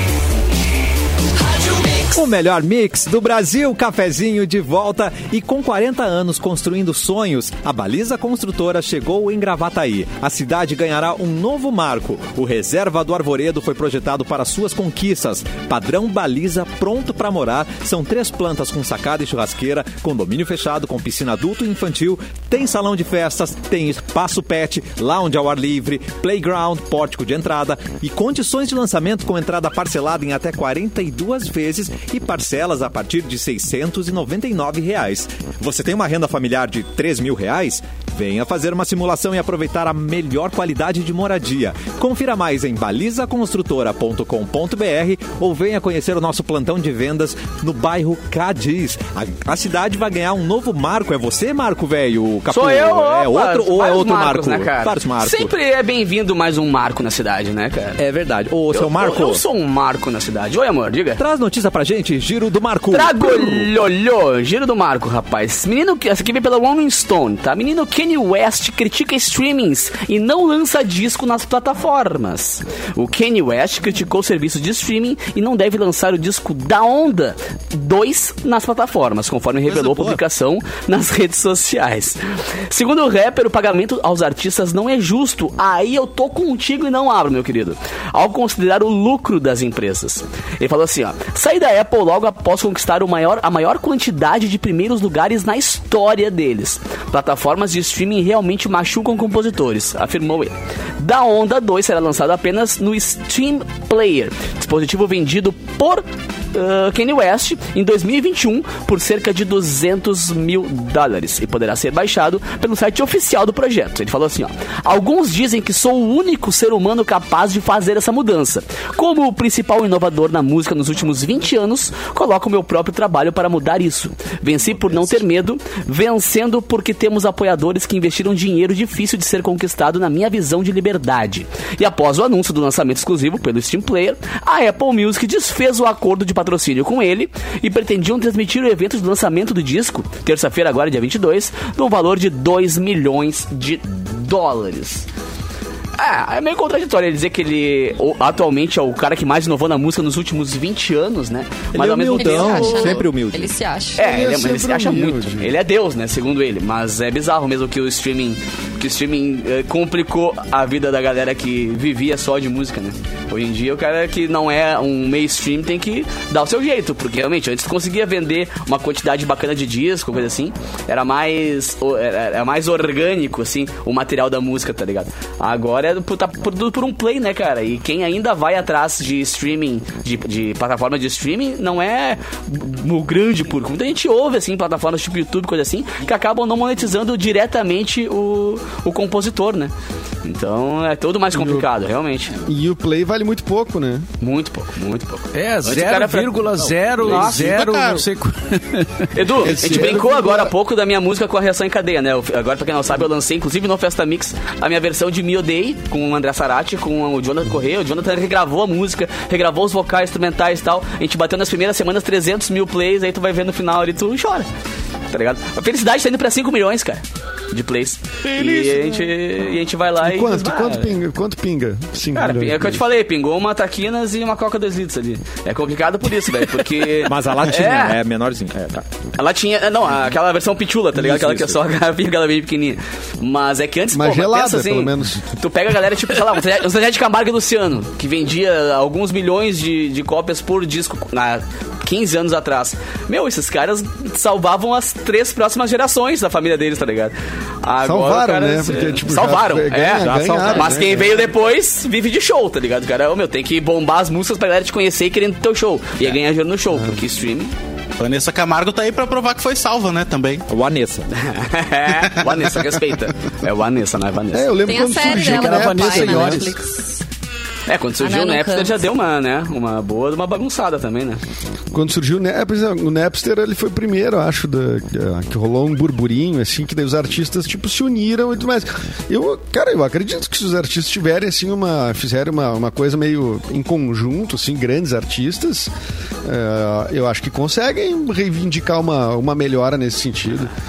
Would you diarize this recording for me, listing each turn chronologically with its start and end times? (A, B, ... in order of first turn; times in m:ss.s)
0:02.0-0:55.5 A
0:52.5-0:58.0 B
0:58.0-0:59.4 A
0:58.7-1:01.2 B
1:01.2-1:03.7 A
1:02.9-2:25.1 B
1:19.7-1:20.2 A
2:26.0-2:33.1 B
2:31.7-2:33.5 A
2:32.1-2:34.0 C
2:34.0-3:09.7 B
2:34.0-2:35.6 D
3:10.2-3:12.4 B
3:11.3-3:11.7 D
3:12.4-3:14.1 D
3:14.2-3:17.5 B
3:15.3-3:19.1 E
3:17.0-3:18.1 F
3:19.1-3:34.5 B
3:19.4-3:20.5 D
3:35.1-3:41.0 B
3:38.3-3:39.1 D
3:40.0-3:42.8 D
3:42.2-3:48.0 B
3:47.0-3:48.9 A
3:49.2-4:17.5 B
3:51.0-3:51.6 A
3:53.9-3:55.3 D
4:07.8-4:11.3 D
4:10.0-4:11.0 A
4:16.7-4:17.0 D
4:18.0-4:20.5 F
4:20.5-4:21.1 A
4:21.1-4:24.7 B
4:22.0-4:22.5 F
4:24.3-4:26.5 D
4:24.6-4:27.0 C
4:25.1-4:26.5 E
4:27.7-4:31.2 B
4:28.0-4:28.8 C
4:31.7-4:45.7 D
4:46.2-4:50.5 D